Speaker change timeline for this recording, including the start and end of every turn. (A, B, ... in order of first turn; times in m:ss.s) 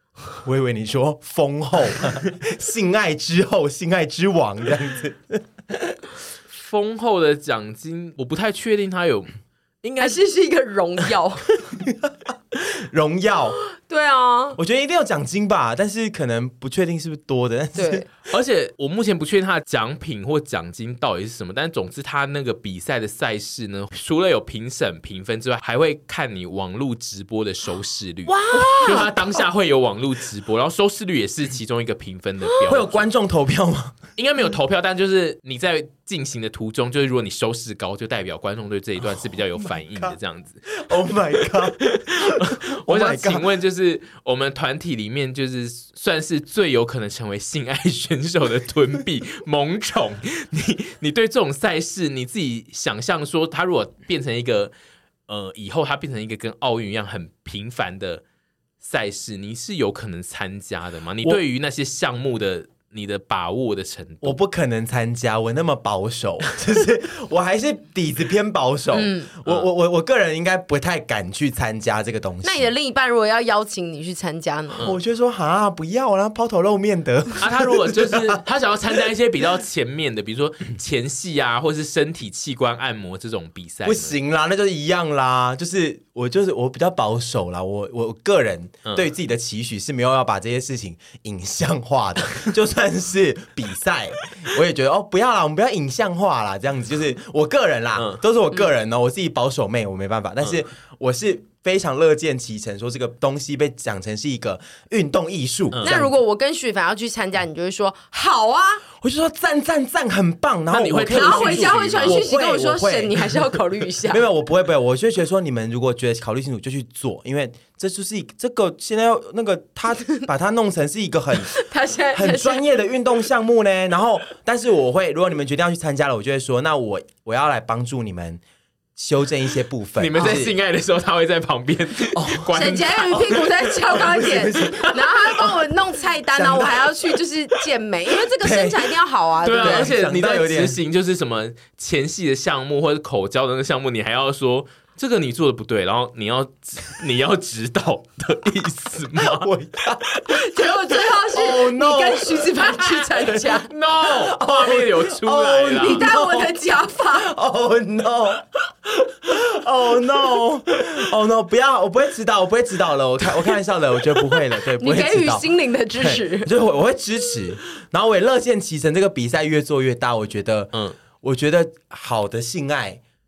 0:00.4-0:05.4 A
0:06.5-0:09.3 B
0:09.8-0:10.2 B
0:10.0-0:11.6 C
0:11.7-0:13.6 A
0:13.6-0:14.6 C
0:14.6-0:18.1 A
0:17.8-0:18.1 C
0:18.3-0:33.1 B
0:28.3-0:29.1 C
0:28.5-0:29.4 A
0:32.6-0:34.0 A
0:34.2-0:40.7 B
0:39.1-0:40.2 A
0:40.7-0:43.5 A
0:41.8-0:54.7 B
0:55.3-0:58.2 B
0:58.8-1:04.4 B
1:04.2-1:12.7 A
1:08.9-1:09.3 C
1:12.4-1:14.9 C
1:14.8-1:18.4 A
1:17.4-1:24.1 B
1:23.8-1:46.1 A
1:38.0-1:38.2 B
1:45.7-1:46.0 B
1:45.8-1:48.8 C
1:49.0-1:53.3 A
1:50.7-1:52.3 B
1:51.1-1:54.2 C
1:54.1-2:01.6 A
2:01.4-2:02.6 C
2:02.1-2:08.4 A
2:09.0-2:10.6 A
2:10.0-2:15.5 B
2:12.1-2:12.5 A
2:12.5-2:19.9 C
2:13.1-2:15.5 A
2:16.3-2:17.0 A
2:18.4-2:18.9 A
2:19.4-2:29.5 B
2:19.5-2:20.8 A
2:29.2-2:30.2 A
2:30.3-2:33.7 C
2:31.3-2:36.6 A
2:33.6-2:36.1 B
2:35.7-2:37.3 C
2:37.1-2:53.0 A
2:44.8-2:46.5 C